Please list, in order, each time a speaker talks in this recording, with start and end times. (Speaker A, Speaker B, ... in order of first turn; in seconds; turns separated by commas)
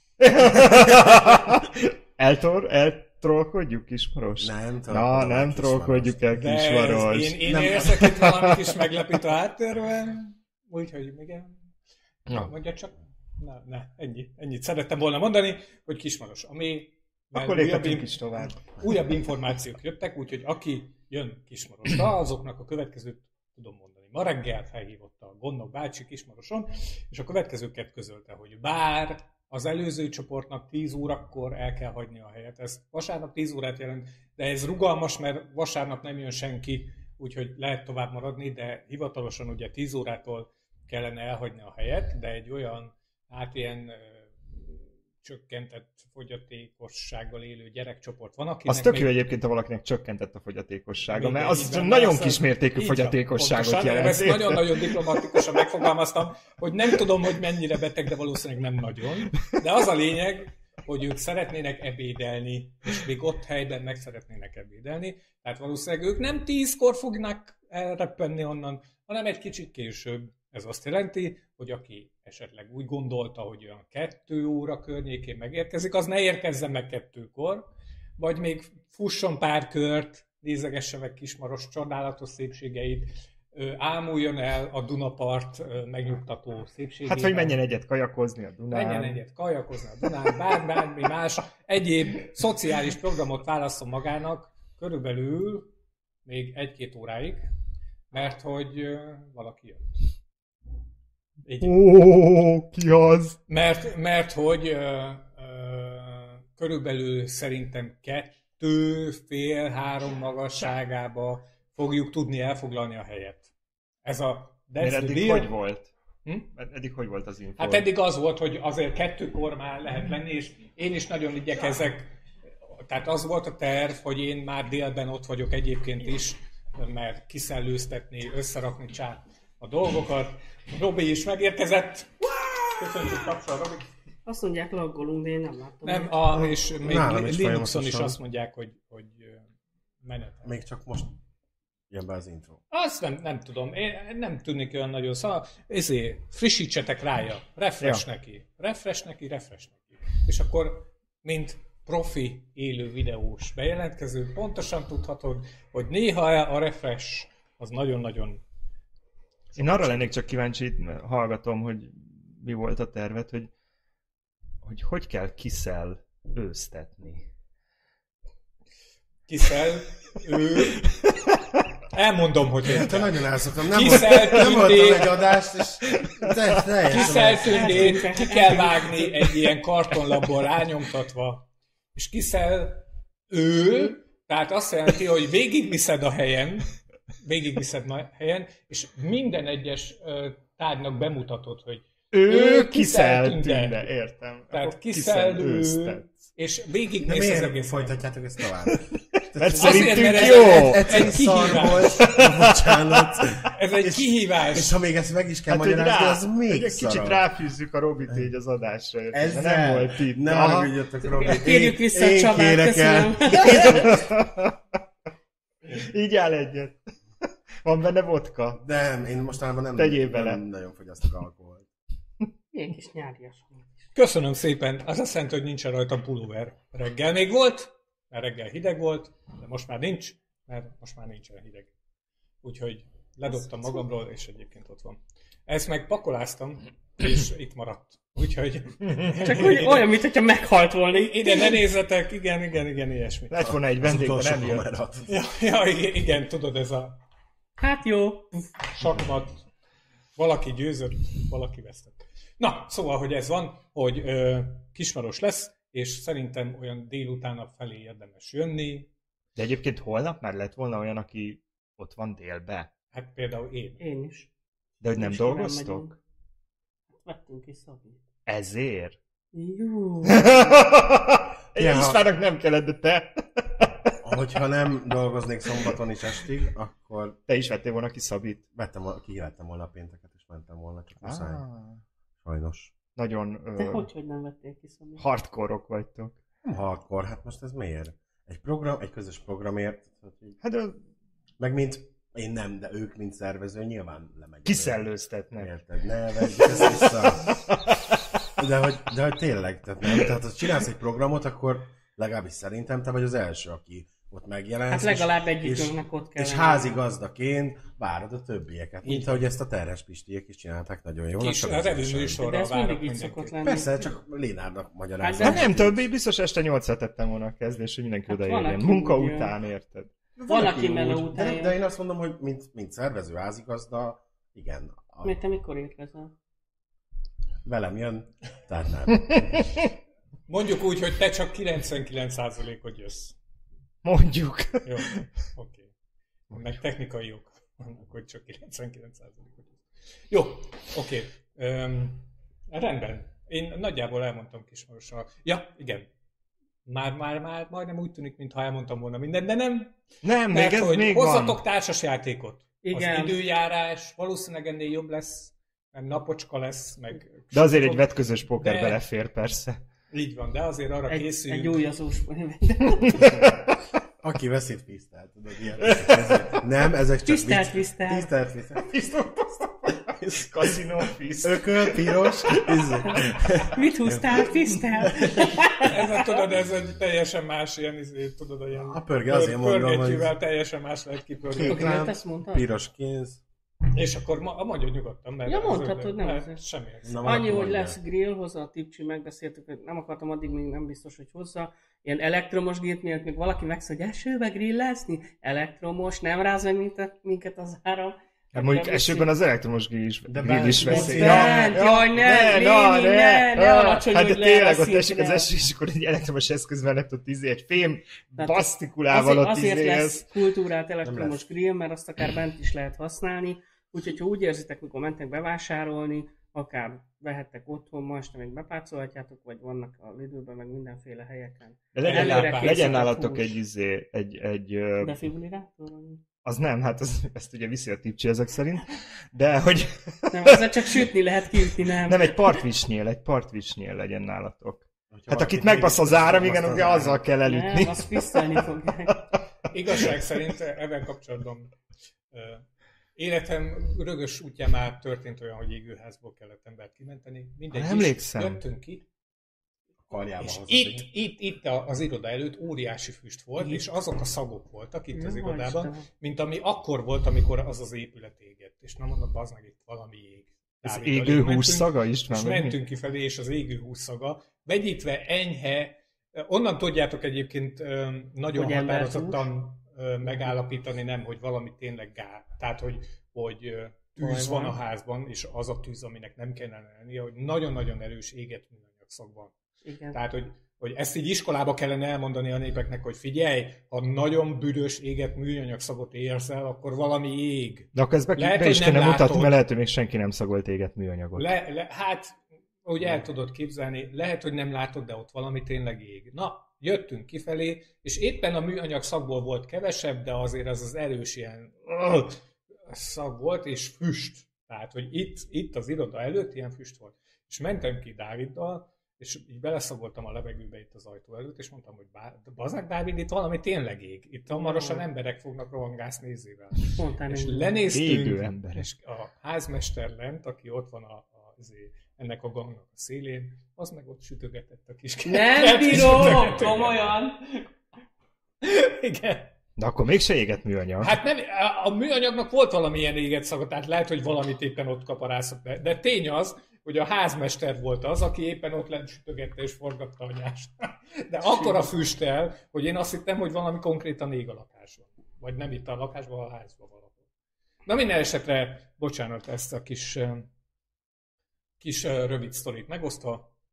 Speaker A: 0.2-8.7, Speaker B: 4.4-6.2, Speaker C: 6.3-11.7, Speaker B: 7.5-7.9, Speaker C: 12.3-49.1, Speaker A: 17.3-18.6, Speaker A: 48.6-55.4, Speaker C: 51.1-87.6, Speaker A: 87.0-89.2, Speaker C: 88.7-95.7, Speaker C: 96.2-97.5, Speaker C: 98.1-100.0, Speaker C: 101.4-101.8, Speaker A: 101.6-103.4, Speaker C: 103.5-113.5, Speaker C: 114.0-115.5, Speaker A: 114.8-115.9, Speaker A: 116.5-117.9, Speaker C: 117.6-122.1, Speaker C: 122.8-133.9, Speaker D: 134.2-136.2, Speaker C: 135.8-139.5, Speaker B: 136.3-138.2, Speaker C: 140.0-140.5, Speaker B: 140.4-141.1, Speaker B: 141.9-142.6, Speaker C: 142.7-158.4, Speaker A: 159.6-163.5, Speaker A: 164.6-167.3, Speaker C: 169.3-170.9, Speaker C: 171.9-175.2, Speaker B: 172.7-178.0, Speaker A: 176.0-176.3, Speaker C: 176.9-193.9, Speaker D: 176.9-178.9, Speaker A: 192.1-196.3, Speaker C: 194.5-198.0, Speaker B: 197.0-207.2, Speaker A: 198.7-203.4, Speaker C: 199.5-202.1, Speaker C: 203.5-204.8, Speaker A: 205.5-210.7, Speaker B: 209.1-214.0, Speaker D: 211.1-214.1, Speaker A: 213.3-214.5, Speaker A: 215.7-216.8, Speaker A: 217.6-218.6, Speaker B: 218.6-221.7, Speaker A: 219.8-220.4, Speaker D: 222.5-223.7, Speaker C: 223.9-231.7, Speaker C: 232.4-239.9, Speaker D: 239.1-241.6, Speaker C: 240.9-243.4, Speaker A: 243.3-244.7, Speaker B: 243.4-245.1, Speaker C: 245.1-247.0, Speaker D: 247.6-248.5, Speaker C: 248.7-249.4, Speaker C: 250.2-258.9, Speaker A: 259.4-262.7, Speaker C: 262.9-263.8, Speaker D: 263.8-264.3, Speaker A: 264.8-265.9, Speaker D: 264.9-265.9, Speaker D: 266.9-268.0, Speaker A: 268.2-269.0, Speaker D: 269.3-270.7, Speaker A: 270.0-273.9, Speaker B: 271.6-272.0, Speaker B: 274.0-277.2, Speaker A: 277.3-278.4, Speaker B: 278.5-281.4, Speaker A: 281.0-281.8, Speaker B: 282.2-282.7, Speaker A: 282.9-283.9, Speaker D: 283.6-285.0, Speaker A: 285.0-286.1, Speaker B: 286.4-290.4, Speaker A: 290.4-290.8, Speaker B: 291.4-294.8, Speaker A: 294.4-295.5, Speaker B: 295.4-297.4, Speaker A: 296.3-298.0, Speaker B: 298.4-312.2, Speaker D: 304.7-306.8, Speaker C: 308.8-309.2, Speaker C: 311.2-313.4, Speaker D: 312.2-313.8, Speaker B: 313.4-315.8, Speaker D: 315.0-315.5, Speaker A: 315.2-319.9, Speaker D: 318.1-319.3, Speaker B: 320.2-325.1, Speaker D: 320.3-321.5, Speaker D: 325.0-326.1, Speaker B: 327.4-329.4, Speaker C: 330.3-333.1, Speaker A: 333.8-335.0, Speaker C: 334.6-335.7, Speaker C: 336.3-345.9, Speaker C: 346.6-349.8, Speaker A: 350.0-351.4, Speaker C: 350.3-358.8, Speaker D: 352.6-353.1, Speaker A: 357.3-359.6, Speaker C: 359.9-361.6, Speaker D: 360.9-363.3, Speaker B: 364.0-368.8, Speaker A: 365.6-366.3, Speaker D: 367.1-368.1, Speaker A: 368.7-372.9, Speaker B: 370.0-370.3, Speaker B: 371.2-375.5, Speaker D: 373.5-375.8, Speaker C: 375.6-381.8, Speaker B: 378.5-380.1, Speaker B: 381.3-383.2, Speaker D: 381.4-382.4, Speaker C: 383.7-387.2, Speaker D: 385.2-386.4, Speaker B: 386.8-387.8, Speaker D: 387.0-399.1, Speaker A: 398.3-410.1, Speaker B: 400.1-401.6, Speaker D: 400.5-405.3, Speaker D: 408.2-423.4, Speaker B: 410.8-411.2, Speaker A: 421.7-425.0, Speaker C: 421.8-422.9, Speaker D: 424.8-426.0, Speaker A: 426.2-438.4, Speaker D: 430.1-432.4, Speaker B: 434.9-437.1, Speaker D: 437.2-439.1, Speaker C: 439.5-441.5, Speaker C: 442.1-442.4, Speaker C: 442.9-448.9, Speaker A: 447.5-448.4, Speaker B: 449.9-450.9, Speaker C: 450.2-479.3, Speaker D: 454.9-455.9, Speaker A: 460.6-462.6, Speaker D: 468.3-469.2, Speaker D: 474.0-474.6, Speaker D: 479.6-480.0, Speaker C: 479.9-489.4, Speaker A: 487.7-491.3, Speaker C: 491.1-527.0, Speaker D: 514.3-514.9, Speaker D: 516.7-517.6, Speaker A: 517.7-518.7, Speaker D: 525.1-527.5, Speaker C: 528.4-529.3, Speaker A: 529.6-530.9, Speaker C: 530.8-547.0, Speaker C: 547.6-550.3, Speaker C: 551.6-553.3